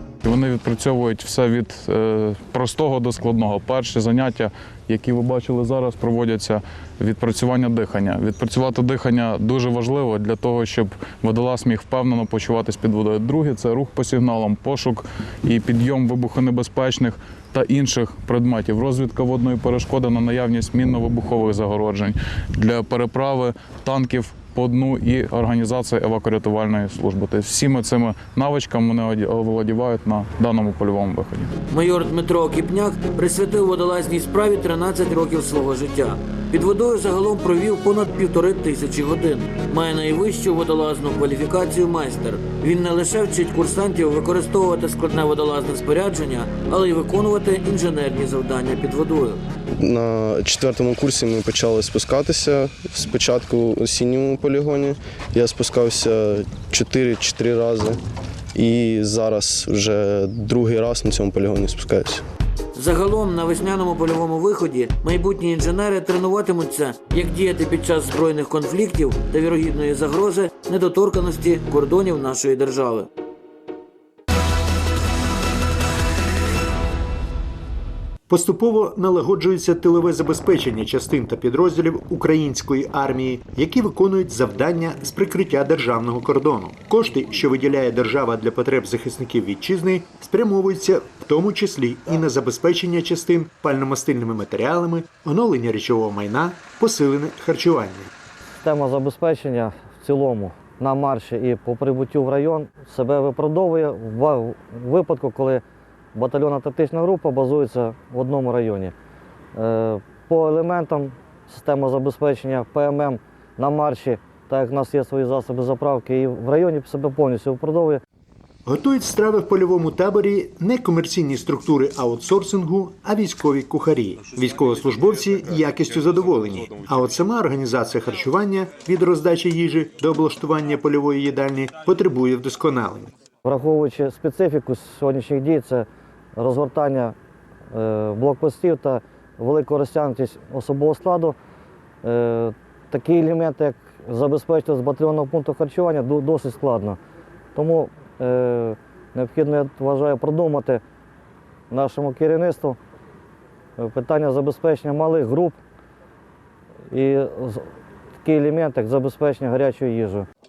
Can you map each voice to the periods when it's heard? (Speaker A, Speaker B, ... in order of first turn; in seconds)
Speaker A: 0.2-31.5
Speaker B: 31.7-49.4, 62.8-73.1
Speaker C: 49.8-58.0, 58.5-62.2
Speaker D: 78.3-98.1, 118.7-133.1
Speaker E: 98.6-105.6, 106.2-108.9, 109.6-118.0, 133.4-137.2, 137.7-141.4, 142.0-147.0, 147.6-150.8, 151.7-152.8, 153.8-155.6, 156.9-157.7, 158.2-160.3